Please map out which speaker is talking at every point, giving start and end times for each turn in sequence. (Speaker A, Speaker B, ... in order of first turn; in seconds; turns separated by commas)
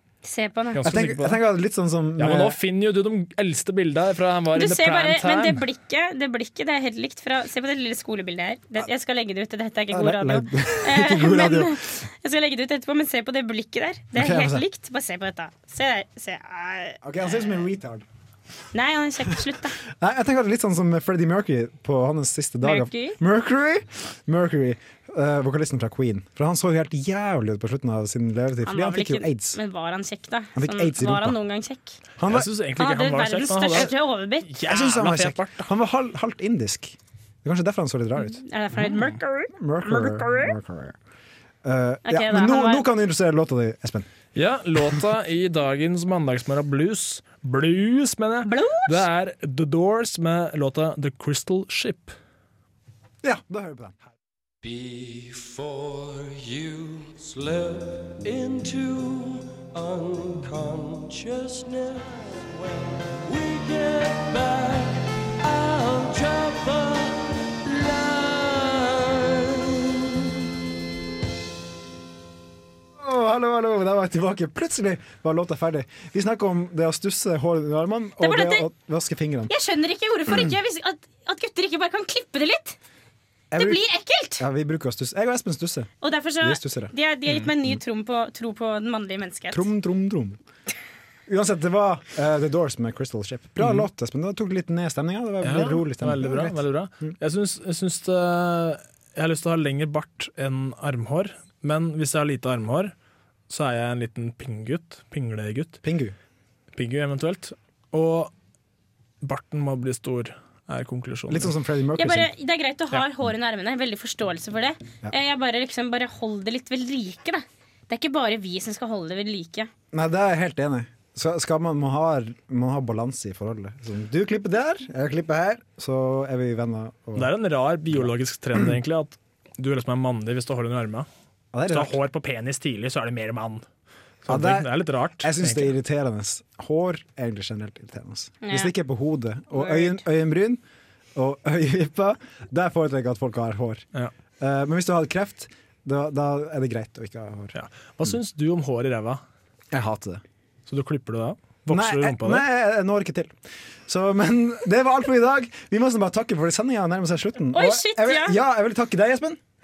Speaker A: 0.2-0.8, Speaker B: 0.7-1.4, Speaker C: 0.8-2.6, Speaker B: 2.2-5.6, Speaker A: 4.5-17.3, Speaker C: 9.9-11.8, Speaker C: 14.2-14.7, Speaker C: 17.0-18.1, Speaker A: 18.7-19.8, Speaker C: 19.9-29.6, Speaker A: 22.6-23.2, Speaker A: 28.6-32.0, Speaker C: 30.6-31.4, Speaker C: 32.2-32.5, Speaker B: 32.3-34.0, Speaker A: 32.8-34.5, Speaker B: 34.5-35.7, Speaker C: 34.6-41.0, Speaker A: 38.2-40.6, Speaker C: 41.6-44.1, Speaker A: 42.1-42.9, Speaker B: 44.4-52.1, Speaker A: 48.5-49.1, Speaker C: 53.2-53.9, Speaker D: 54.6-70.2, Speaker C: 73.0-79.5, Speaker A: 78.2-78.7, Speaker A: 79.5-82.8, Speaker C: 83.5-83.8, Speaker A: 83.6-84.4, Speaker C: 84.4-86.9, Speaker A: 86.0-89.7, Speaker C: 89.5-90.4, Speaker C: 91.3-97.1, Speaker B: 93.6-93.8, Speaker B: 95.4-102.9, Speaker B: 103.5-105.8, Speaker C: 105.8-106.2, Speaker B: 106.7-108.3, Speaker B: 109.2-111.5, Speaker C: 111.3-112.3, Speaker A: 112.0-119.7, Speaker C: 119.9-127.3, Speaker B: 127.2-131.1, Speaker C: 127.9-128.7, Speaker C: 131.5-132.0, Speaker B: 131.7-133.7, Speaker B: 134.2-135.8, Speaker C: 134.3-140.6, Speaker A: 138.4-138.7, Speaker A: 139.6-140.0, Speaker C: 141.2-143.8, Speaker C: 144.4-147.5, Speaker B: 147.5-149.2, Speaker C: 149.7-150.2, Speaker B: 150.7-152.4, Speaker C: 151.7-153.3, Speaker C: 153.9-159.4, Speaker A: 157.5-158.4